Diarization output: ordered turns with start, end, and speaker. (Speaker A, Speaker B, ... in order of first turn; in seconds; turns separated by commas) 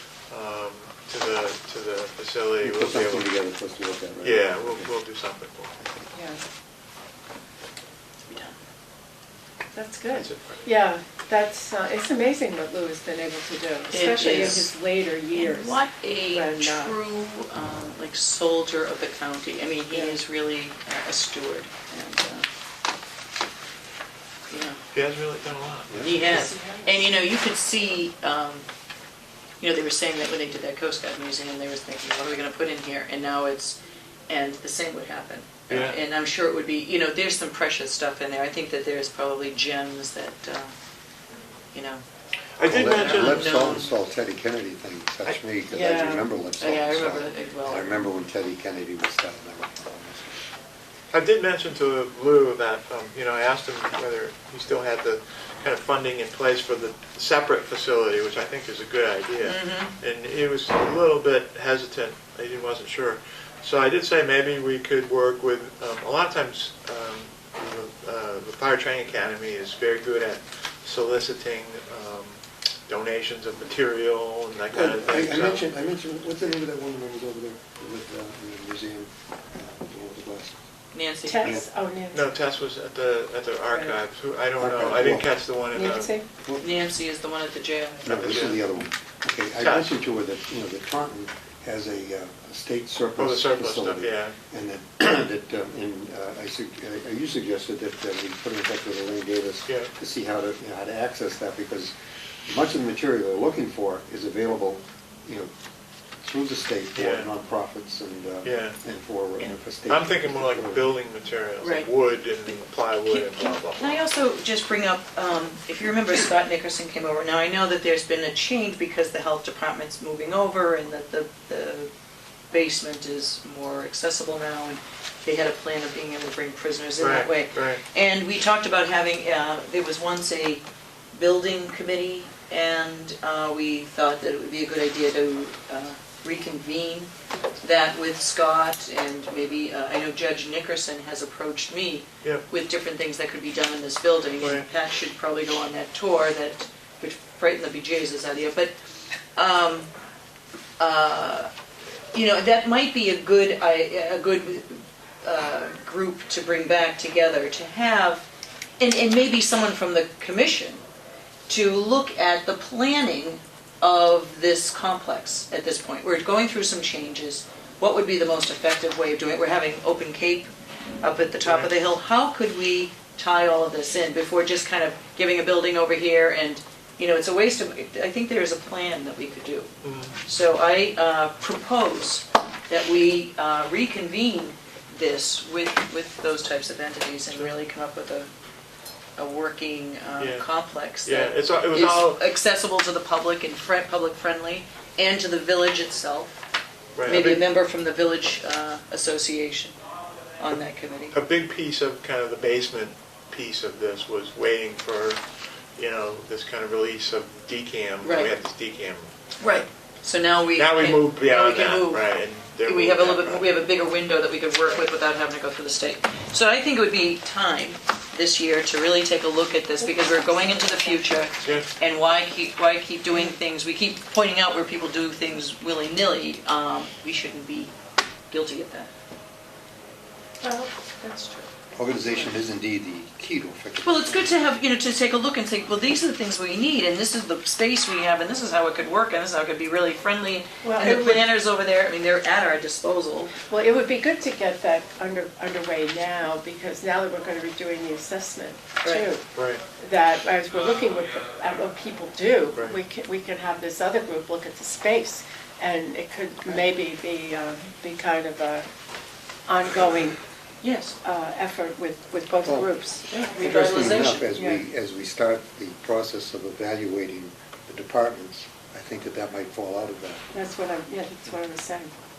Speaker A: 0.3-3.3, Speaker B: 2.6-4.9, Speaker A: 4.2-5.7, Speaker B: 5.8-6.1, Speaker C: 6.1-6.4, Speaker D: 8.2-8.5, Speaker C: 9.7-17.0, Speaker A: 10.1-10.6, Speaker D: 13.9-14.7, Speaker D: 15.3-22.5, Speaker C: 19.9-20.2, Speaker D: 24.5-24.8, Speaker A: 24.9-26.3, Speaker B: 25.9-26.1, Speaker D: 26.0-28.6, Speaker C: 26.1-27.2, Speaker D: 29.6-33.8, Speaker D: 34.3-40.7, Speaker A: 35.7-36.0, Speaker D: 41.7-42.0, Speaker A: 42.6-43.7, Speaker B: 42.6-50.4, Speaker D: 42.7-43.9, Speaker C: 45.7-46.2, Speaker D: 46.6-48.0, Speaker A: 51.1-75.6, Speaker D: 59.4-59.9, Speaker B: 74.7-80.6, Speaker D: 80.9-81.6, Speaker C: 81.2-82.2, Speaker A: 82.1-86.2, Speaker B: 84.6-85.3, Speaker C: 85.7-86.2, Speaker B: 86.4-86.7, Speaker D: 86.6-88.1, Speaker B: 88.0-101.9, Speaker A: 88.1-88.6, Speaker A: 89.6-90.0, Speaker A: 93.2-94.3, Speaker B: 102.5-105.5, Speaker B: 106.2-110.9, Speaker A: 106.9-107.3, Speaker A: 108.4-108.8, Speaker A: 109.9-114.0, Speaker D: 111.6-111.9, Speaker D: 112.5-121.9, Speaker D: 122.5-148.7, Speaker A: 127.0-127.8, Speaker A: 144.4-144.7, Speaker D: 149.3-149.9, Speaker D: 150.8-151.5, Speaker D: 152.1-158.2, Speaker D: 158.8-160.8, Speaker D: 161.5-170.5, Speaker D: 171.0-179.7, Speaker A: 171.4-171.7, Speaker A: 179.8-180.2, Speaker D: 180.2-188.3, Speaker D: 189.2-196.4, Speaker A: 190.2-190.5, Speaker A: 191.0-192.2, Speaker A: 196.9-197.4, Speaker D: 197.1-199.7, Speaker D: 200.4-201.2, Speaker A: 201.1-205.2, Speaker A: 205.8-209.1, Speaker D: 208.0-208.3, Speaker D: 209.4-227.7, Speaker A: 210.5-213.5, Speaker C: 219.8-221.3, Speaker A: 221.4-221.7, Speaker D: 228.3-228.9, Speaker C: 230.4-231.4, Speaker B: 231.7-234.3, Speaker D: 231.9-232.3, Speaker D: 233.8-243.3, Speaker C: 240.6-241.2, Speaker C: 243.5-249.2, Speaker A: 249.3-249.6, Speaker C: 249.8-258.7, Speaker C: 259.4-260.2, Speaker D: 260.6-260.9, Speaker C: 261.0-264.6, Speaker B: 262.4-262.8, Speaker D: 263.1-264.3, Speaker B: 263.4-270.3, Speaker C: 270.3-271.9